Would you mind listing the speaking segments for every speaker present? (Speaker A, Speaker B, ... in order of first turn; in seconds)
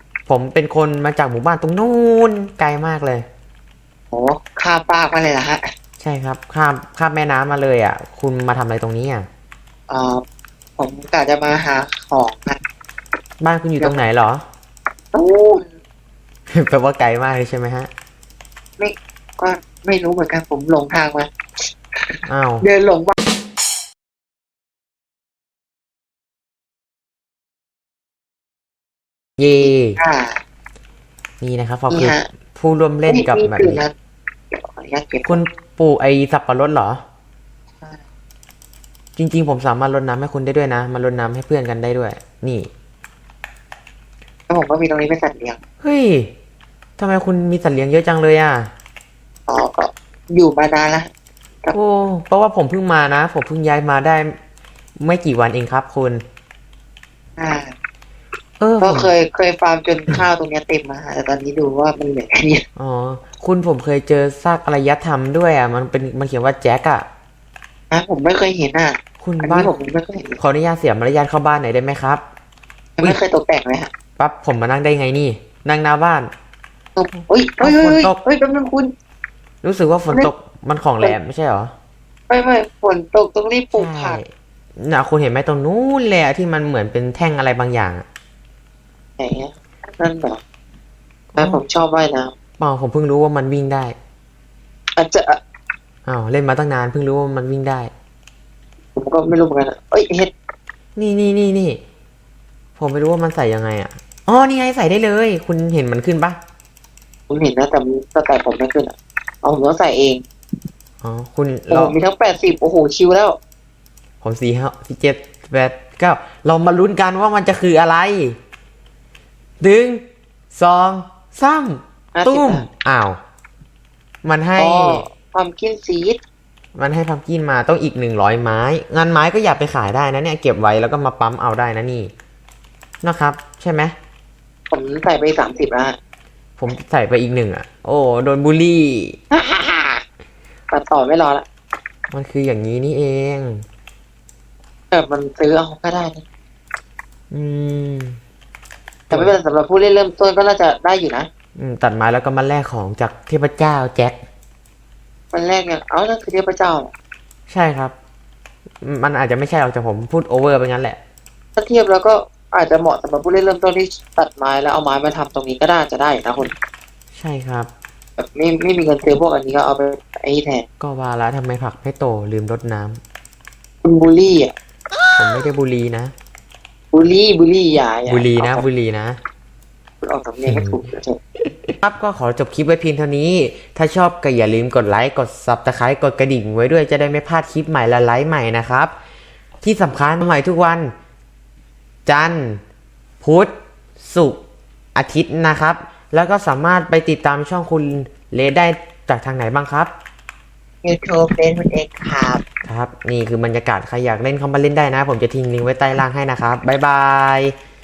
Speaker A: 0.3-3.3, 6.0-9.3, 13.4-14.4, 16.5-17.9, 22.3-22.7, 29.4-30.0, 31.4-33.8, 35.3-37.0, 39.2-42.7, 45.8-46.3, 47.0-48.7, 51.7-54.4, 55.0-56.2, 58.6-59.1, 62.8-67.0, 69.2-69.7, 70.4-72.2, 74.2-76.3, 77.6-78.2, 79.6-81.7, 83.7-88.0, 91.3-91.6, 92.6-94.0, 96.1-97.9, 101.0-101.8, 102.8-106.4, 111.0-112.0, 114.2-118.4, 119.6-123.2, 124.2-125.1, 126.8-132.1, 133.0-134.0, 136.6-139.2, 142.1-143.6, 147.3-148.2, 151.6-154.2, 157.5-157.9, 158.8-161.0, 167.1-167.7, 170.8-173.0, 175.2-176.1, 178.1-179.2, 180.5-180.9, 181.7-188.9, 189.6-190.9, 192.1-192.6, 193.2-194.4, 194.9-199.9, 202.7-207.5
Speaker B: 4.1-5.7, 9.9-10.2, 10.8-12.6, 15.1-15.7, 18.8-21.3, 22.0-23.2, 30.0-30.4, 31.9-32.3, 33.1-33.9, 34.5-35.4, 44.5-45.6, 49.5-51.1, 57.4-57.8, 58.8-62.6, 67.9-70.4, 73.0-73.9, 77.0-78.9, 82.3-84.2, 89.2-90.4, 91.4-92.3, 95.0-95.4, 99.0-100.3, 107.3-110.2, 111.7-113.4, 122.1-122.7, 124.6-126.2, 134.7-136.0, 139.3-140.0, 140.7-141.5, 144.9-146.3, 149.1-151.3, 155.3-156.9, 161.6-166.6, 168.2-170.7, 173.8-174.5, 176.9-178.7, 180.0-181.2, 200.8-202.4